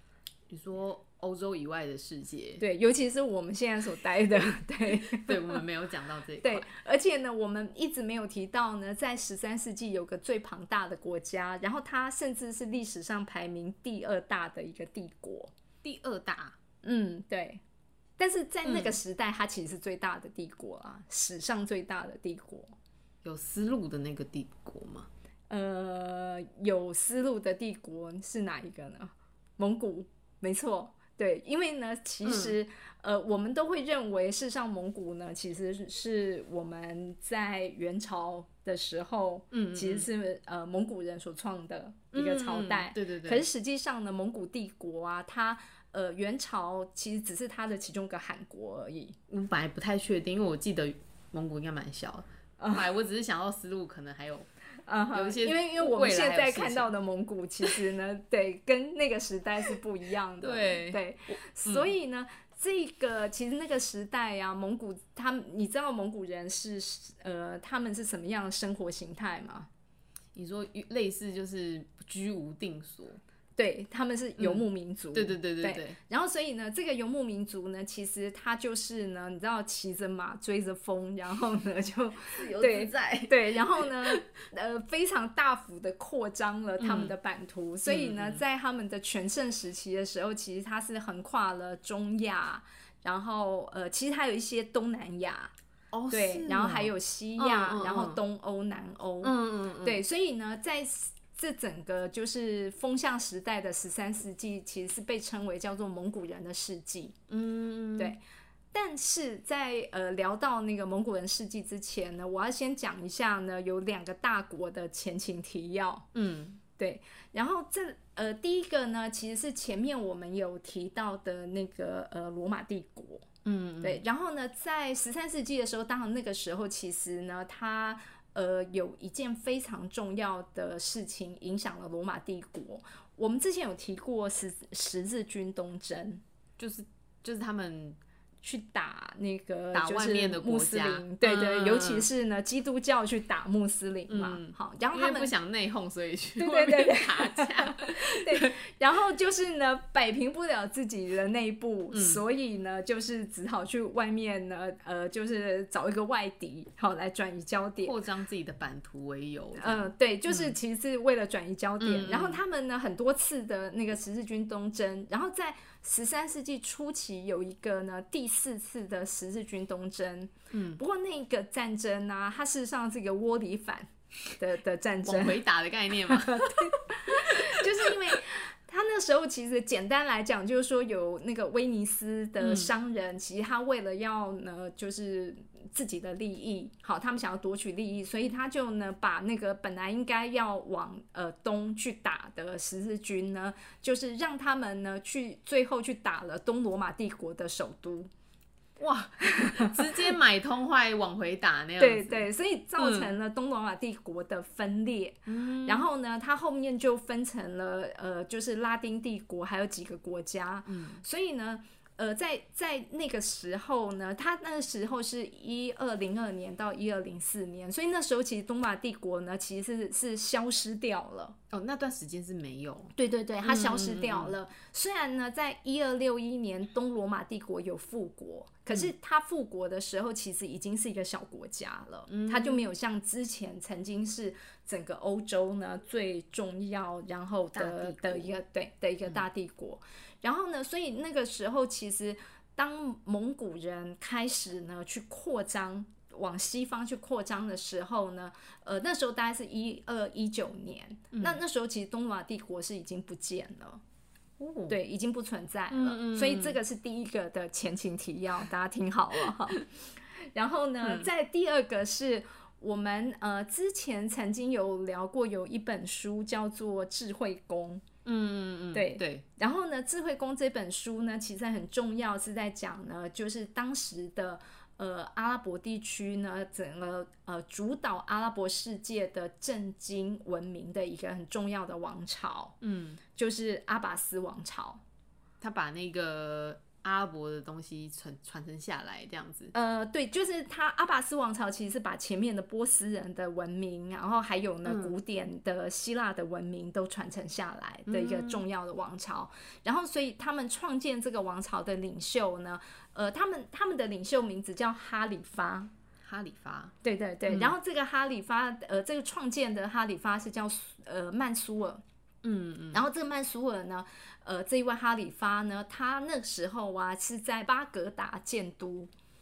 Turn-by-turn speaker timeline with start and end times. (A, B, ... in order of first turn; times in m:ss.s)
0:00.5-0:02.6 A
0:02.6-0:05.6 B
0:04.9-0:06.7 A
0:06.4-0:15.5 B
0:15.8-0:16.6 A
0:16.8-0:17.6 B
0:18.2-0:22.7 B
0:18.6-0:19.0 A
0:23.2-0:25.1 A
0:25.5-0:49.2 B
0:32.2-0:32.6 A
0:39.5-0:40.1 A
0:42.1-0:43.4 A
0:49.3-0:54.5 A
0:52.6-0:52.9 B
0:54.9-1:09.7 B
0:55.1-0:56.9 A
1:00.4-1:01.9 A
1:10.3-1:13.2 A
1:13.6-1:35.5 B
1:14.4-1:16.0 A
1:22.3-1:24.3 A
1:26.8-1:27.1 A
1:27.8-1:28.4 A
1:35.9-1:38.2 A
1:36.1-1:47.2 B
1:39.2-1:40.0 A
1:47.3-1:48.1 A
1:48.7-1:56.0 B
1:56.1-1:56.6 A
1:56.8-2:03.2 B
2:03.4-2:04.0 A
2:03.8-2:16.2 B
2:16.6-2:18.0 A
2:18.4-2:25.3 B
2:19.7-2:22.1 A
2:24.1-2:28.4 A
2:26.4-2:37.9 B
2:31.9-2:32.2 A
2:37.8-2:40.6 A
2:39.6-2:55.4 B
2:41.8-2:42.4 A
2:50.5-2:50.8 A
2:55.0-2:57.9 A
2:56.1-3:18.1 B
3:02.4-3:02.7 A
3:18.8-3:23.1 A
3:19.4-3:19.8 B
3:21.8-3:41.4 B
3:25.3-3:25.8 A
3:30.6-3:31.0 A
3:41.5-3:44.3 A
3:42.9-4:13.8 B
3:52.1-3:52.7 A
3:57.5-3:58.4 A
4:11.1-4:11.4 A
4:14.4-4:14.8 A
4:14.7-4:19.7 B
4:15.7-4:16.6 A
4:20.3-4:27.8 B
4:20.8-4:21.1 A
4:28.0-4:29.2 A
4:28.7-4:42.6 B
4:42.6-4:43.0 A
4:43.1-4:44.8 B
4:45.4-4:49.5 A
4:49.5-5:05.7 B
4:54.6-4:54.9 A
4:57.9-4:58.4 A
5:06.0-5:06.7 A
5:06.8-5:11.8 B
5:07.3-5:07.5 A
5:12.2-5:12.8 A
5:12.7-5:18.9 B